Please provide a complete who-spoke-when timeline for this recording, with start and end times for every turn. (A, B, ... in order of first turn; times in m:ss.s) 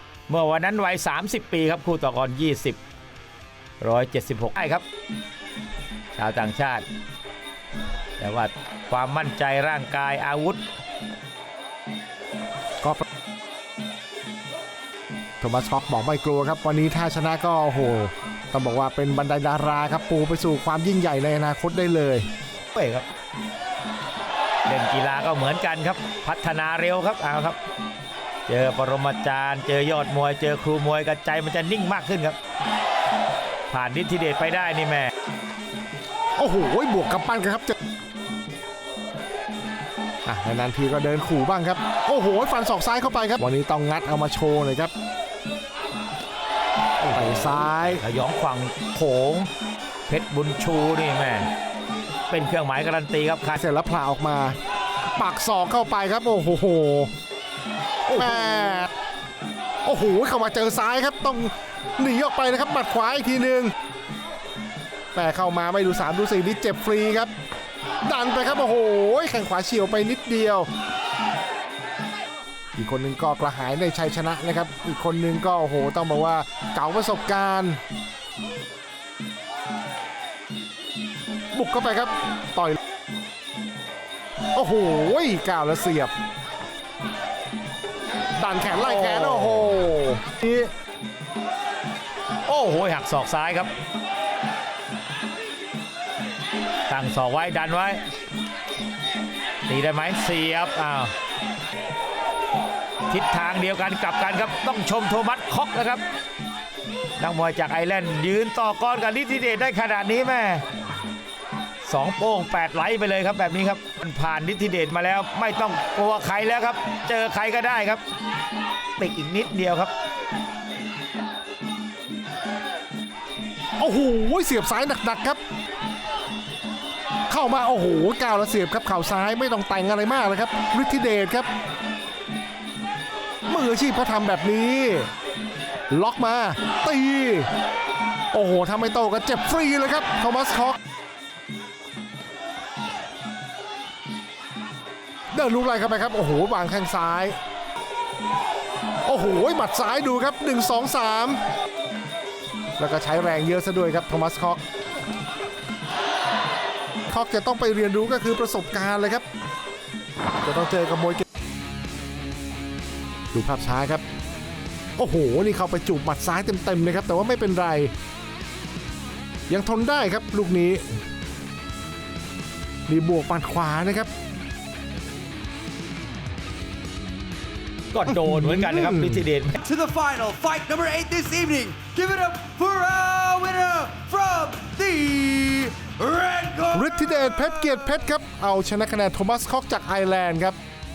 0:00.3-0:02.8 A
0:03.8-0:04.8 A
0:06.1-0:06.8 A
0:08.2-0:10.6 A
0:15.4-0:22.3 B
0:22.8-0:23.0 A
0:24.6-0:27.6 A
0:28.5-0:32.4 A
0:33.7-0:35.1 A
0:36.4-0:37.7 B
0:40.2-0:44.9 B
0:47.0-0:49.5 A
0:47.1-0:48.0 B
0:50.1-0:51.5 A
0:52.3-0:53.6 A
0:53.6-0:54.6 B
0:55.1-0:57.1 B
0:58.1-0:58.9 B
0:58.2-0:58.8 A
0:59.8-1:03.7 B
1:05.1-1:07.3 B
1:08.0-1:10.7 B
1:12.8-1:17.8 B
1:21.5-1:22.8 B
1:24.5-1:26.1 B
1:28.4-1:30.7 B
1:28.7-1:29.8 A
1:32.4-1:33.7 A
1:36.9-1:38.0 A
1:39.6-1:41.1 A
1:43.1-1:46.0 A
1:47.2-1:50.6 A
1:51.8-1:58.0 A
1:59.0-1:59.9 A
2:03.8-2:05.4 B
2:07.3-2:11.5 B
2:13.5-2:15.1 B
2:15.9-2:17.5 B
2:18.3-2:20.8 B
2:25.3-2:27.4 B
2:29.0-2:31.4 B
2:32.8-2:34.6 B
2:37.1-2:39.2 B
2:40.4-2:41.2 B
2:43.3-2:44.0 B
2:45.0-2:47.9 B
2:49.5-2:51.0 B
2:52.9-2:54.1 B
2:57.9-2:59.6 A
2:58.1-2:59.2 B
2:59.6-3:06.9 C
3:06.7-3:10.6 B